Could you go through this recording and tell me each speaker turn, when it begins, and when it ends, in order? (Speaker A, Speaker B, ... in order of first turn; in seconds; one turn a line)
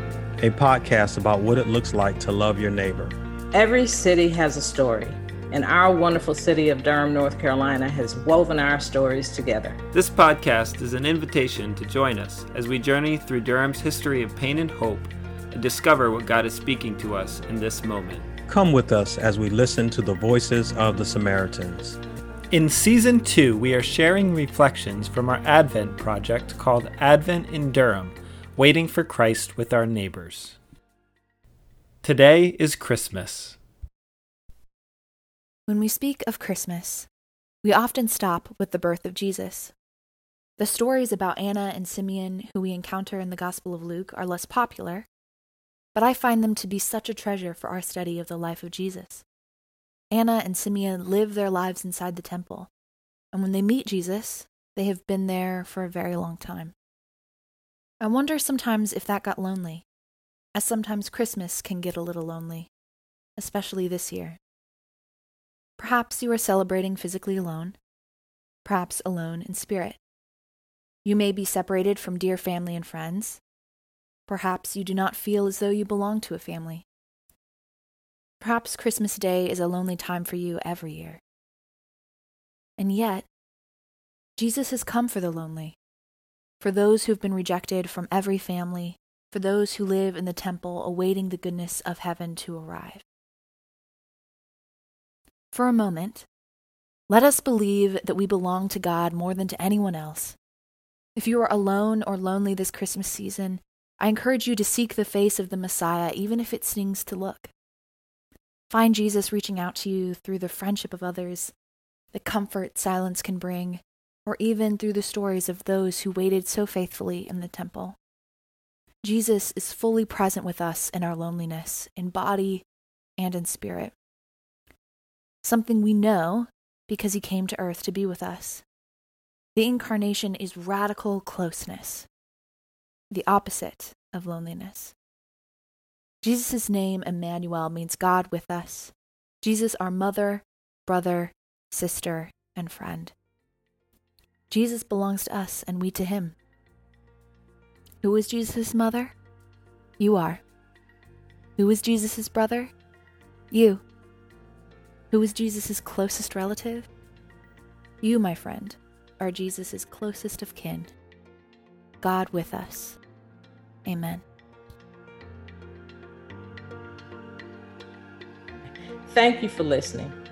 Speaker A: 0.4-3.2
Speaker B: 3.5-9.8
Speaker C: 9.9-18.3
Speaker A: 18.5-22.0
Speaker D: 22.5-30.5
Speaker C: 28.6-30.5
Speaker C: 32.0-33.6
Speaker E: 35.7-37.1
Speaker E: 37.6-39.7
Speaker E: 40.6-45.1
Speaker E: 45.9-49.2
Speaker E: 50.1-52.7
Speaker E: 53.3-56.7
Speaker E: 58.0-59.9
Speaker E: 60.5-62.7
Speaker E: 63.4-64.4
Speaker E: 65.8-67.8
Speaker E: 68.6-70.0
Speaker E: 71.0-73.4
Speaker E: 74.3-76.8
Speaker E: 78.4-81.2
Speaker E: 82.8-83.3
Speaker E: 84.4-85.8
Speaker E: 86.6-93.0
Speaker E: 95.5-96.3
Speaker E: 97.1-100.4
Speaker E: 101.2-107.5
Speaker E: 108.7-111.5
Speaker E: 112.1-118.0
Speaker E: 119.0-122.7
Speaker E: 123.2-124.0
Speaker E: 125.4-128.6
Speaker E: 129.6-132.1
Speaker E: 133.1-134.9
Speaker E: 136.2-143.1
Speaker E: 144.5-146.4
Speaker E: 148.0-149.1
Speaker E: 150.0-150.4
Speaker E: 151.6-152.7
Speaker E: 153.5-153.8
Speaker E: 155.1-156.9
Speaker E: 158.0-160.9
Speaker E: 162.0-163.0
Speaker E: 163.8-164.2
Speaker B: 169.1-170.2